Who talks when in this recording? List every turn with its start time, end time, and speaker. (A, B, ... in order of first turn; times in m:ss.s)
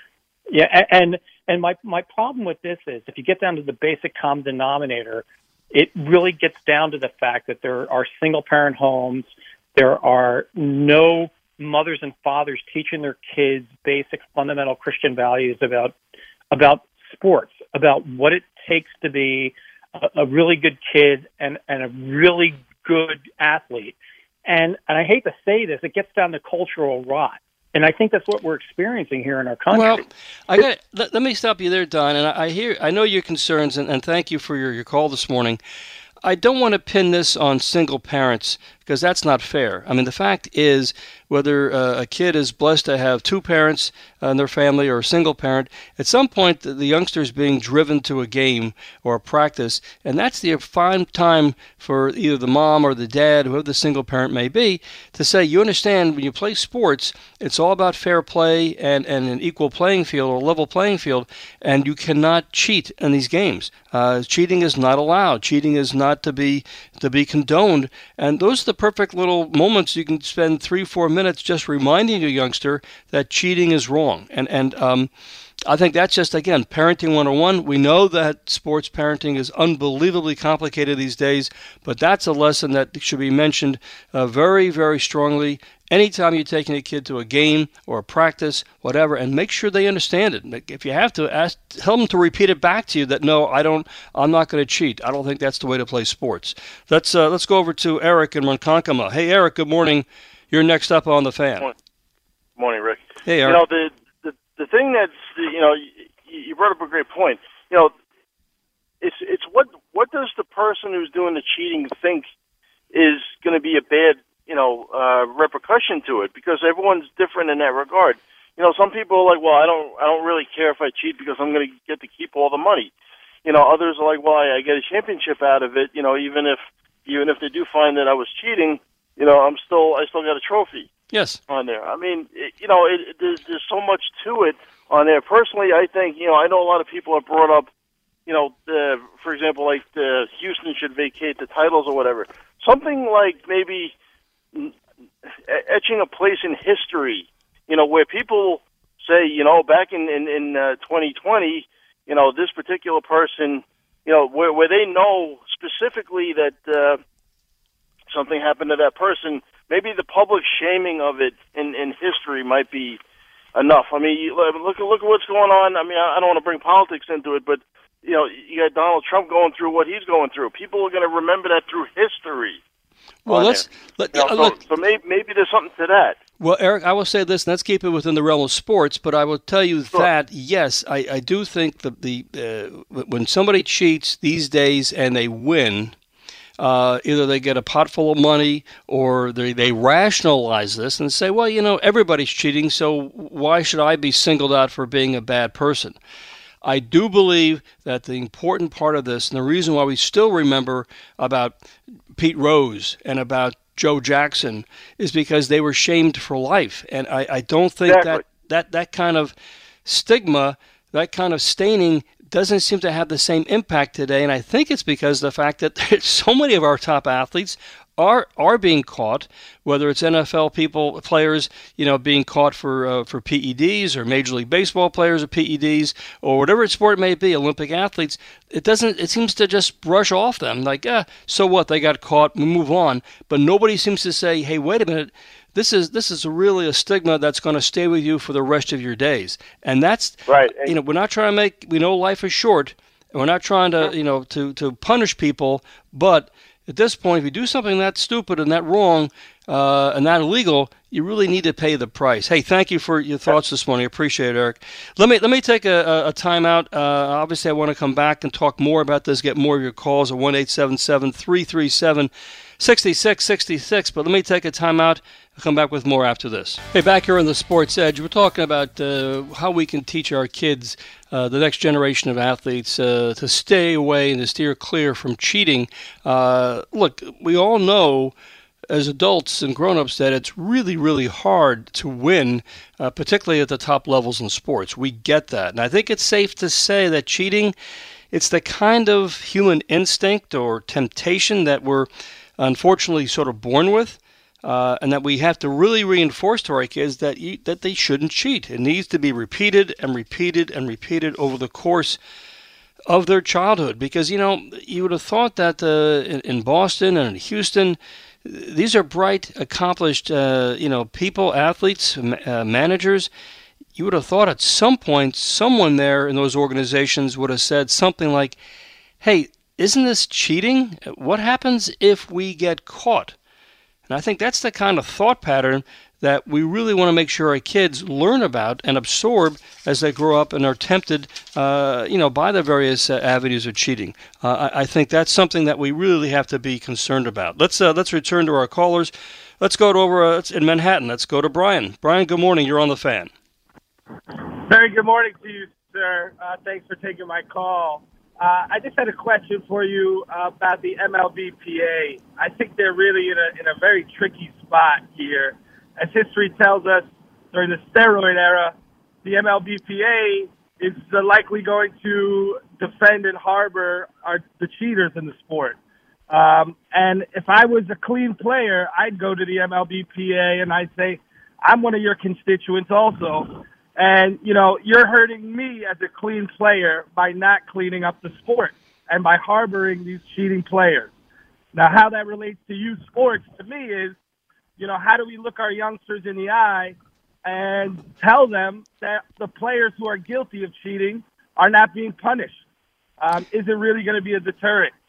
0:00.5-0:16.0 A
0:16.5-0:30.0 A
0:29.7-0:35.6 B
0:36.2-1:15.1 B
1:15.7-1:41.7 B
1:42.6-1:47.9 C
1:43.2-1:43.6 B
1:49.0-1:52.3 C
1:52.9-2:02.9 C
2:03.4-2:10.9 C
2:11.1-2:11.4 B
2:11.5-2:17.7 C
2:18.3-2:23.9 C
2:25.5-2:37.0 C
2:38.1-2:43.0 C
2:43.5-2:52.6 C
2:53.2-2:54.6 B
2:53.3-2:56.2 C
2:56.4-3:05.9 B
3:06.6-3:16.0 B
3:16.6-3:21.6 B
3:22.2-3:29.3 B
3:27.8-3:28.2 C
3:29.8-4:38.1 B
4:00.3-4:00.7 C
4:38.7-4:47.5 B
4:48.1-5:02.0 B
5:02.9-5:13.1 B
5:13.8-5:18.4 B
5:19.0-5:23.2 B
5:23.9-5:43.1 B
5:44.4-6:05.6 D
6:06.1-6:20.9 D
6:21.5-6:23.9 D
6:24.6-6:32.4 D
6:33.0-6:34.7 D